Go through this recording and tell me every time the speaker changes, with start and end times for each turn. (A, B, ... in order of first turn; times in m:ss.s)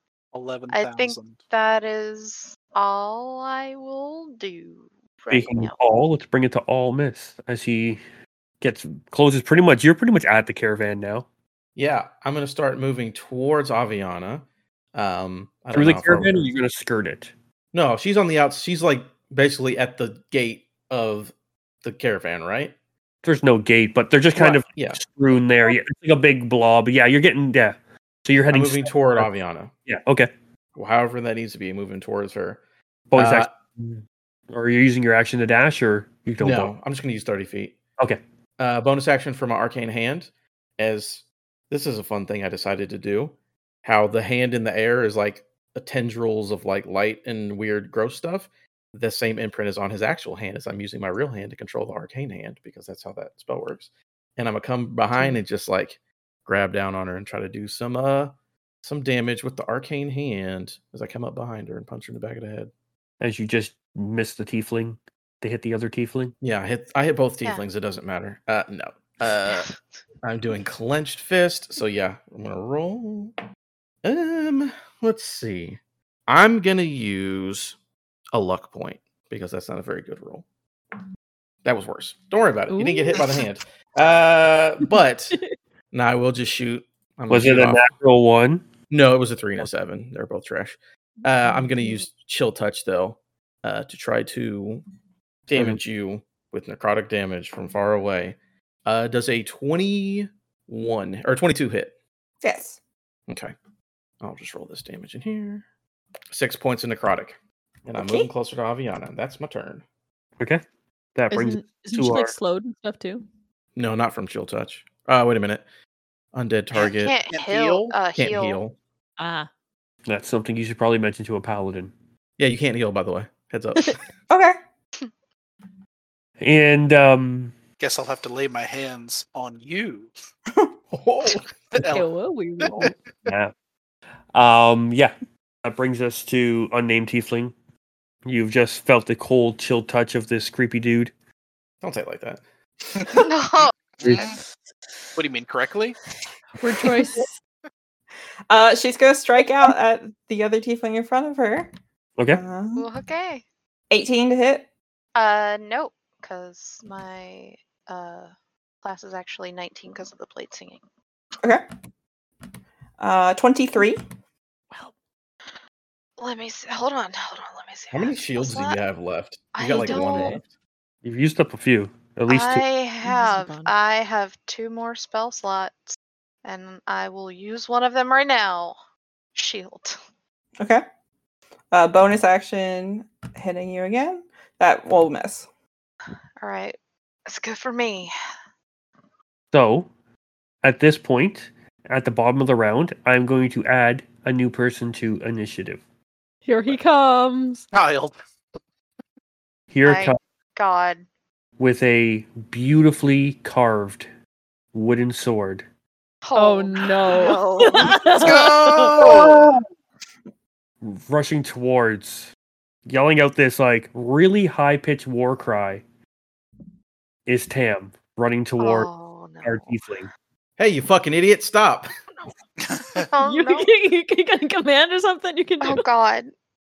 0:00.3-0:01.4 A
0:00.7-0:05.8 B
0:05.3-0:08.0 C
0:08.6-0:11.3 C
0:11.8-0:16.4 D
0:15.7-0:17.3 C
0:17.7-0:22.8 D
0:23.2-0:29.3 C
0:24.4-0:25.0 D
0:28.5-0:29.7 D
0:29.9-0:30.3 C
0:30.8-0:32.6 D
0:33.1-0:36.7 C
0:33.2-0:33.5 D
0:36.4-0:37.8 D
0:38.6-0:58.3 D
0:58.8-1:02.7 D
1:03.2-1:06.4 C
1:06.4-1:09.7 D
1:09.5-1:09.7 B
1:10.2-1:13.3 D
1:14.0-1:17.8 D
1:18.3-1:20.5 D
1:21.6-1:25.4 D
1:22.7-1:23.5 E
1:25.9-1:27.9 D
1:27.3-1:28.7 C
1:28.9-1:34.8 D
1:35.5-1:41.9 D
1:42.4-1:42.8 F
1:43.3-1:43.5 D
1:44.2-1:45.6 D
1:46.3-1:49.8 D
1:48.0-1:48.3 F
1:51.2-1:52.3 C
1:51.3-1:53.2 E
1:53.8-1:55.6 D
1:56.3-1:57.2 D
1:56.8-1:58.0 A
1:56.8-1:58.6 B
1:58.2-1:58.8 D
1:59.2-1:59.5 E
2:00.1-2:01.9 C
2:02.4-2:04.0 D
2:04.3-2:04.6 F
2:06.4-2:07.5 C
2:07.8-2:10.1 A
2:10.9-2:11.5 D
2:11.7-2:12.1 A
2:11.8-2:12.9 E
2:12.6-2:12.9 A
2:13.3-2:13.5 C
2:14.3-2:15.1 C
2:15.6-2:17.5 C
2:18.2-2:21.1 C
2:21.8-2:22.4 D
2:23.2-2:24.2 B
2:24.0-2:24.4 A
2:25.2-2:26.0 A
2:26.6-2:27.3 E
2:28.5-2:31.7 F
2:32.2-2:32.4 C
2:32.3-2:32.9 F
2:32.8-2:33.4 B
2:33.9-2:34.7 F
2:35.2-2:38.3 B
2:38.8-2:40.8 B
2:43.0-2:44.0 F
2:46.2-2:48.8 B
2:47.9-2:50.5 D
2:49.6-2:50.4 B
2:49.9-2:50.4 E
2:51.0-2:52.6 C
2:52.3-2:58.8 B
2:53.0-2:53.7 E
2:59.4-3:00.0 B
3:01.7-3:05.5 F
3:06.4-3:08.1 B
3:09.5-3:09.9 C
3:10.6-3:15.8 C
3:16.5-3:17.7 E
3:17.7-3:18.2 A
3:19.7-3:20.2 C
3:19.8-3:21.0 B
3:21.6-3:24.1 C
3:24.7-3:25.6 C
3:26.2-3:28.7 B
3:26.4-3:29.0 E
3:28.2-3:29.4 A
3:28.3-3:29.5 D
3:30.8-3:32.3 C
3:32.9-3:35.8 C
3:37.3-3:38.9 C
3:38.6-3:39.7 B
3:39.4-3:40.1 C
3:40.6-3:41.9 D
3:42.7-3:43.1 A
3:43.1-3:43.7 B
3:43.2-3:45.8 E
3:45.6-3:46.3 B